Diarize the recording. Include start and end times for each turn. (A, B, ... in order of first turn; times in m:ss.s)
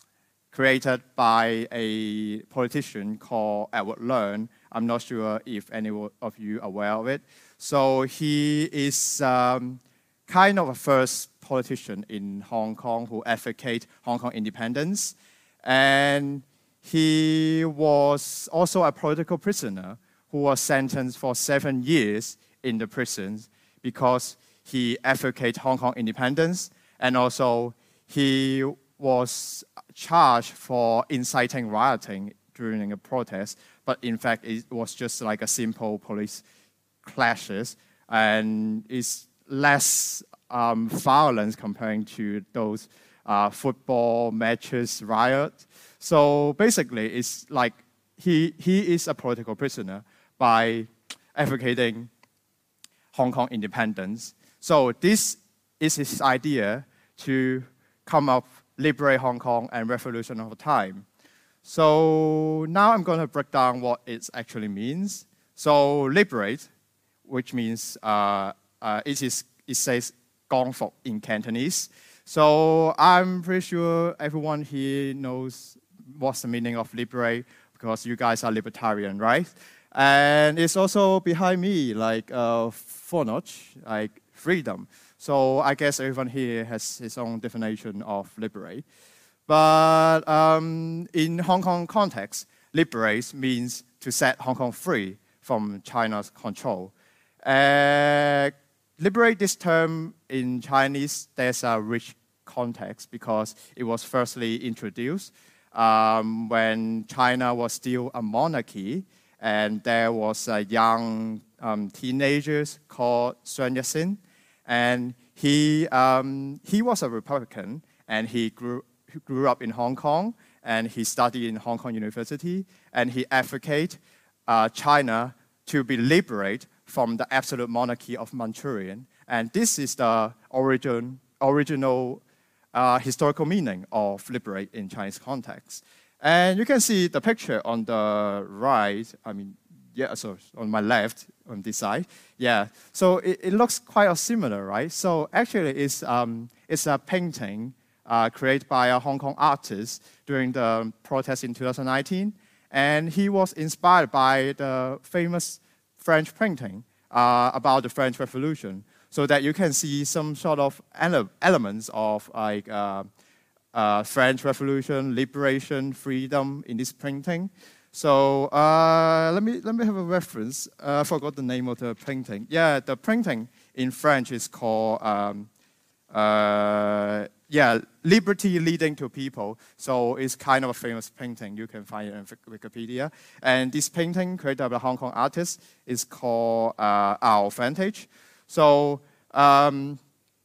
0:00.5-0:36.4 A
0:37.0-0:52.1 A
0:53.1-1:01.0 A
1:01.6-1:06.7 A
1:07.2-1:28.8 A
1:29.5-1:36.9 A
1:37.4-2:12.2 A
2:12.7-2:43.1 A
2:43.7-2:55.5 A
2:56.1-3:10.0 A